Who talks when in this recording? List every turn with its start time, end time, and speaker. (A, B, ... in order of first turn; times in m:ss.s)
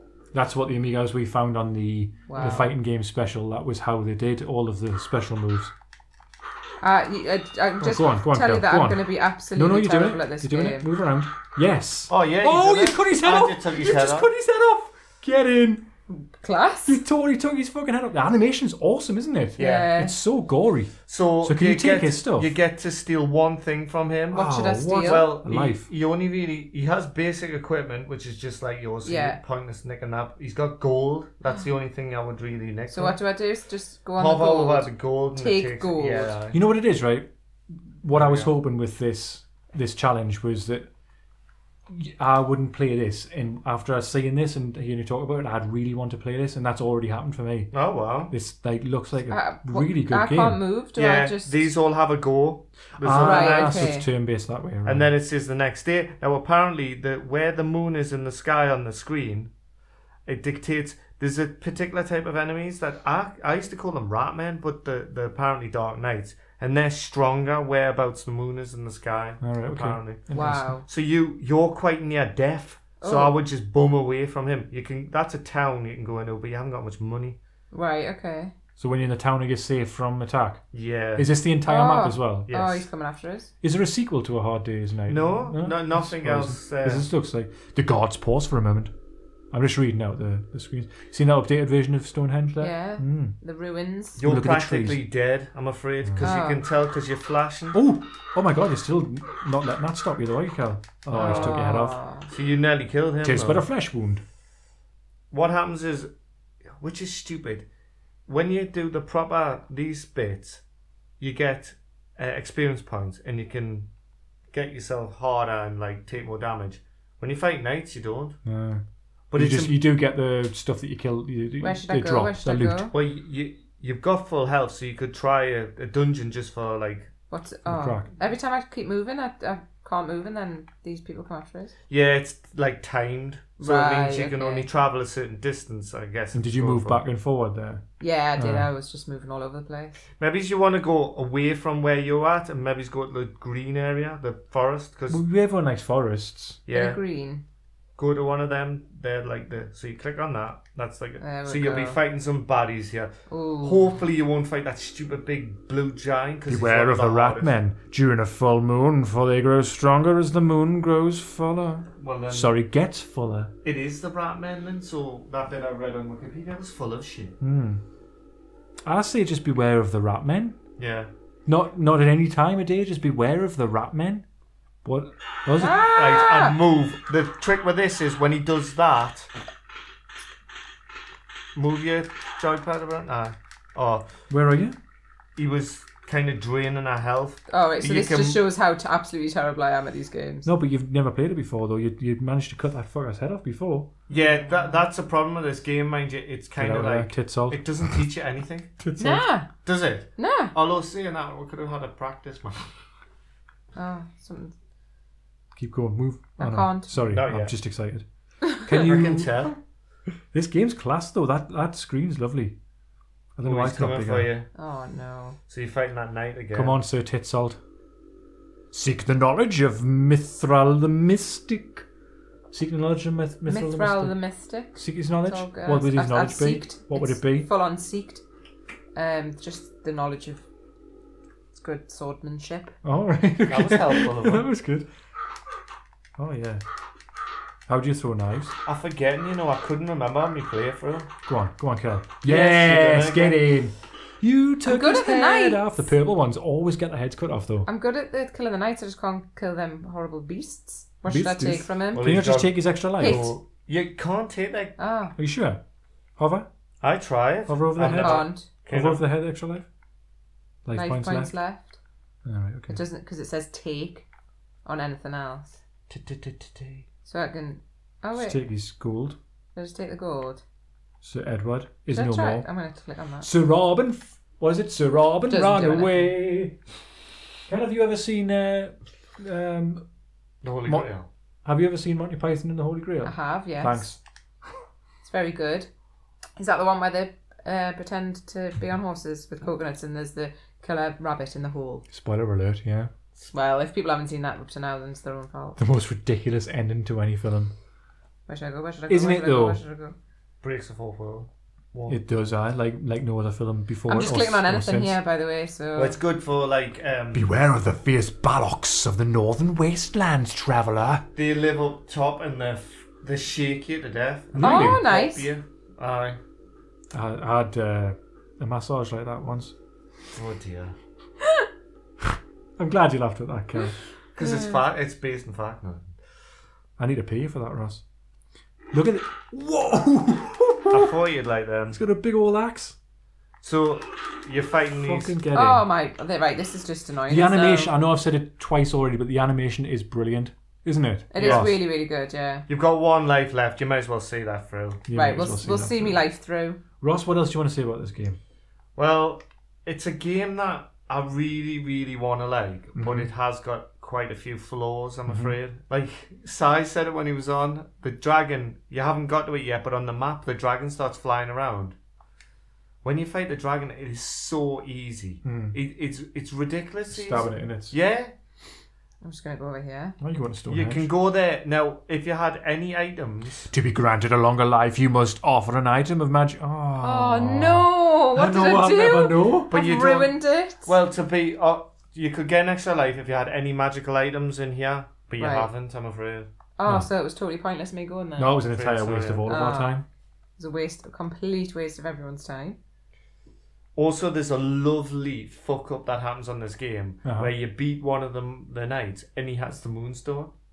0:00.3-0:05.7 A
0:02.3-0:02.7 B
0:06.8-0:10.9 B
0:07.8-0:15.9 A
0:12.1-0:14.3 C
0:16.1-0:17.0 B
0:16.8-0:22.5 A
0:19.6-0:19.9 C
0:19.6-0:20.2 B
0:21.1-0:33.2 C
0:24.3-0:25.3 B
0:24.3-0:25.9 A
0:29.0-0:29.4 B
0:32.9-0:36.3 B
0:34.2-0:36.6 C
0:36.5-0:40.9 A
0:38.1-0:38.6 C
0:41.9-0:47.7 A
0:47.7-0:48.3 C
0:48.3-0:50.6 A
0:49.3-0:51.7 B
0:51.0-0:54.0 C
0:53.0-0:55.1 A
0:53.2-0:54.1 B
0:54.8-0:59.5 C
1:00.2-1:17.4 C
1:09.4-1:10.7 A
1:10.3-1:10.8 B
1:13.0-1:13.3 B
1:17.7-1:18.5 B
1:18.8-1:20.6 A
1:20.7-1:21.3 C
1:21.2-1:22.5 A
1:21.6-1:23.5 B
1:22.5-1:22.9 C
1:23.6-1:28.9 A
1:25.1-1:27.1 C
1:29.5-1:33.4 A
1:32.6-1:34.2 B
1:34.2-1:37.8 C
1:34.2-1:35.0 A
1:36.2-1:36.6 B
1:37.7-1:42.0 A
1:41.1-1:41.6 C
1:41.1-1:42.2 B
1:42.2-1:43.6 C
1:43.2-1:44.2 A
1:45.3-1:46.1 C
1:46.8-1:47.7 C
1:48.3-1:50.6 C
1:51.2-1:53.9 C
1:54.5-1:58.4 C
1:58.4-1:58.8 A
1:59.3-1:59.8 C
1:59.3-2:02.9 A
2:01.6-2:02.9 B
2:02.9-2:07.1 C
2:07.3-2:11.7 B
2:07.6-2:08.1 A
2:11.9-2:17.0 C
2:13.6-2:14.7 B
2:16.3-2:17.8 A
2:18.0-2:20.0 B
2:18.4-2:18.7 A
2:20.2-2:25.2 C
2:25.1-2:26.6 A
2:26.7-2:27.0 C
2:26.7-2:27.4 B
2:28.0-2:37.5 C
2:31.2-2:32.0 B
2:33.3-2:33.9 B
2:36.5-2:43.5 A
2:42.0-2:42.5 C
2:43.6-2:47.4 C
2:47.4-2:47.8 A
2:48.8-2:50.6 A
2:50.8-2:51.1 C
2:51.4-2:54.2 A
2:54.8-2:55.8 A
2:55.6-2:56.6 B
2:55.7-2:59.3 C
3:01.6-3:04.1 C
3:04.3-3:04.8 A
3:05.4-3:08.4 C
3:07.5-3:10.5 B
3:10.4-3:13.9 A
3:14.1-3:18.7 C
3:14.2-3:14.8 B
3:16.6-3:18.0 A
3:18.8-3:19.2 A
3:19.0-3:19.5 B
3:19.6-3:22.7 C
3:20.2-3:20.5 B
3:23.7-3:24.5 B
3:25.5-3:28.0 A
3:26.4-3:26.9 B
3:27.0-3:27.5 C
3:28.6-3:29.4 A
3:28.7-3:29.6 C
3:30.3-3:32.6 A
3:33.4-3:34.3 A
3:33.4-3:34.5 C
3:34.5-3:35.4 B
3:35.5-3:36.8 C
3:36.5-3:37.6 A
3:38.7-3:41.8 A
3:42.5-3:44.2 A
3:43.5-3:48.2 B
3:44.7-3:47.5 A
3:48.9-3:50.4 B
3:51.5-3:52.7 B
3:52.8-3:54.9 A
3:53.5-3:54.5 C
3:56.2-3:56.6 A
3:57.7-3:58.5 A
3:58.6-4:01.1 C
4:01.3-4:07.7 A
4:02.2-4:03.5 C
4:04.6-4:05.6 B
4:07.6-4:12.0 B
4:11.0-4:13.3 A
4:11.9-4:14.7 C
4:13.0-4:13.3 B
4:14.8-4:15.1 B
4:15.2-4:15.6 A
4:16.2-4:16.5 A
4:16.8-4:19.0 C
4:17.5-4:19.7 A
4:17.8-4:18.5 B
4:20.6-4:21.3 A
4:20.7-4:21.8 B
4:22.2-4:22.8 A
4:22.7-4:24.0 B
4:24.6-4:25.6 B
4:25.9-4:26.8 C
4:27.0-4:28.4 B
4:28.2-4:29.2 A
4:29.5-4:30.4 B
4:31.0-4:32.5 A
4:31.9-4:33.3 B
4:33.2-4:36.6 A
4:35.3-4:36.1 B
4:37.5-4:39.8 A
4:40.4-4:41.1 C
4:41.4-4:44.0 A
4:43.0-4:43.9 B
4:45.0-4:45.7 B
4:46.4-4:51.8 B
4:51.9-4:52.9 A
4:53.3-4:55.6 B
4:55.6-4:57.5 A
4:58.3-5:00.0 B
4:58.9-4:59.6 A
5:00.4-5:02.0 C
5:01.9-5:05.0 A
5:03.9-5:06.0 B
5:05.8-5:07.3 C
5:07.1-5:11.1 A
5:11.2-5:16.2 C
5:14.3-5:14.9 A
5:14.4-5:15.3 B
5:16.9-5:19.5 A
5:20.1-5:20.7 C
5:22.6-5:23.7 A
5:24.2-5:25.9 C
5:24.2-5:24.6 B
5:26.8-5:27.8 A
5:28.7-5:30.9 A
5:30.7-5:31.8 C
5:31.7-5:32.8 A
5:33.4-5:35.1 C
5:34.8-5:35.7 A
5:35.3-5:37.7 B
5:37.1-5:41.6 A
5:41.1-5:42.4 B
5:41.2-5:41.5 C
5:42.5-5:44.9 C
5:44.9-5:46.0 A
5:44.9-5:46.6 B
5:46.8-5:48.2 A
5:48.8-6:01.8 C
5:52.8-5:53.1 A
5:55.1-5:55.4 A
6:02.8-6:08.1 C
6:05.2-6:05.6 A
6:06.9-6:07.7 A
6:09.0-6:10.0 B
6:10.0-6:10.9 A
6:10.5-6:13.5 C
6:13.5-6:19.5 A
6:16.8-6:20.7 B
6:19.5-6:26.3 C
6:25.2-6:25.5 B
6:26.6-6:28.4 B
6:28.2-6:29.8 A
6:28.5-6:29.3 C
6:29.3-6:29.8 B
6:30.4-6:32.6 B
6:33.8-6:40.3 C
6:37.0-6:37.3 A